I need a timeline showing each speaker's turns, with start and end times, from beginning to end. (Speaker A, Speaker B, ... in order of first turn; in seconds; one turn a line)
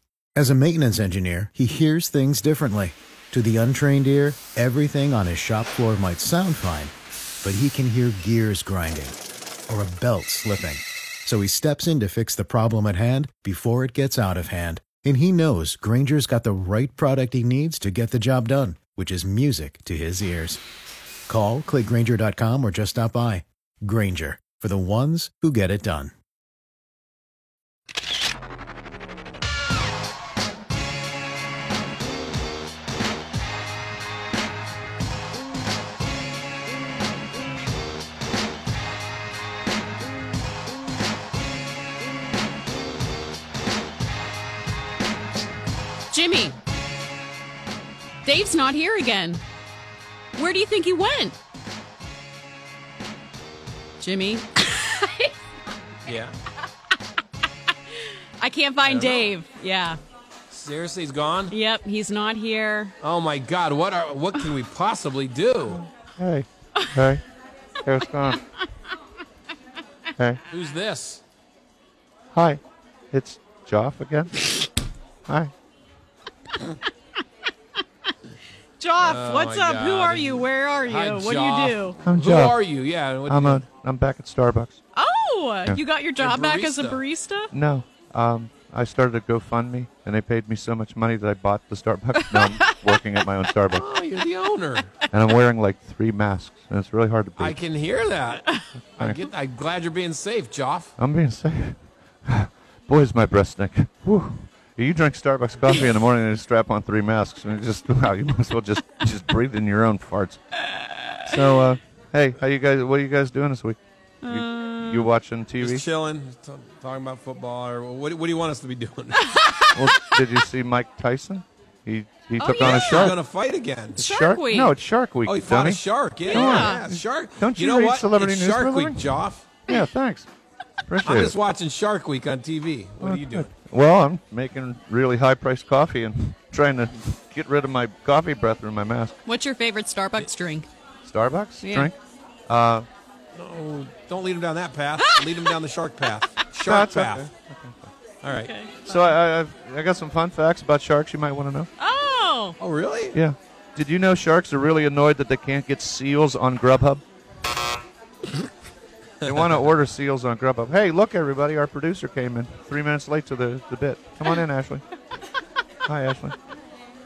Speaker A: 0.3-9.2
Speaker A: 9.7-20.6
Speaker A: 21.3-26.1
Speaker B: 46.1-46.6
Speaker B: 48.2-49.4
Speaker B: 50.3-51.4
Speaker B: 54.0-55.3
Speaker C: 56.0-56.3
Speaker B: 58.4-60.0
Speaker C: 58.8-59.3
Speaker C: 60.5-61.5
Speaker B: 61.5-62.9
Speaker C: 63.0-65.8
Speaker D: 65.7-67.2
Speaker B: 66.8-67.1
Speaker D: 67.8-68.4
Speaker C: 70.5-71.2
Speaker D: 72.3-72.6
Speaker D: 73.1-74.4
Speaker D: 75.3-75.5
Speaker B: 78.8-82.0
Speaker C: 79.0-83.6
Speaker D: 82.0-82.6
Speaker D: 83.2-84.8
Speaker B: 84.9-87.5
Speaker C: 86.2-87.0
Speaker D: 87.5-93.8
Speaker B: 92.2-92.8
Speaker C: 93.7-94.9
Speaker D: 95.1-97.6
Speaker C: 97.4-100.9
Speaker D: 99.0-99.2
Speaker D: 101.0-110.4
Speaker D: 111.2-115.8
Speaker B: 114.2-115.1
Speaker C: 115.6-119.3
Speaker D: 119.7-123.2
Speaker B: 122.4-123.2
Speaker C: 122.6-124.0
Speaker B: 124.0-124.7
Speaker D: 124.0-129.1
Speaker C: 125.2-129.5
Speaker B: 126.2-126.9
Speaker D: 129.7-130.3
Speaker D: 130.9-131.3
Speaker C: 131.0-133.5
Speaker D: 133.0-139.1
Speaker B: 139.2-140.7
Speaker D: 141.0-141.9
Speaker B: 141.6-141.9
Speaker D: 142.5-142.8
Speaker C: 143.3-147.3
Speaker B: 145.0-145.5
Speaker D: 146.7-147.9
Speaker C: 148.2-148.5
Speaker B: 148.3-149.1
Speaker D: 148.8-151.7
Speaker B: 151.8-152.6
Speaker C: 152.6-153.2
Speaker D: 153.1-157.0
Speaker D: 159.2-164.8
Speaker D: 165.8-166.3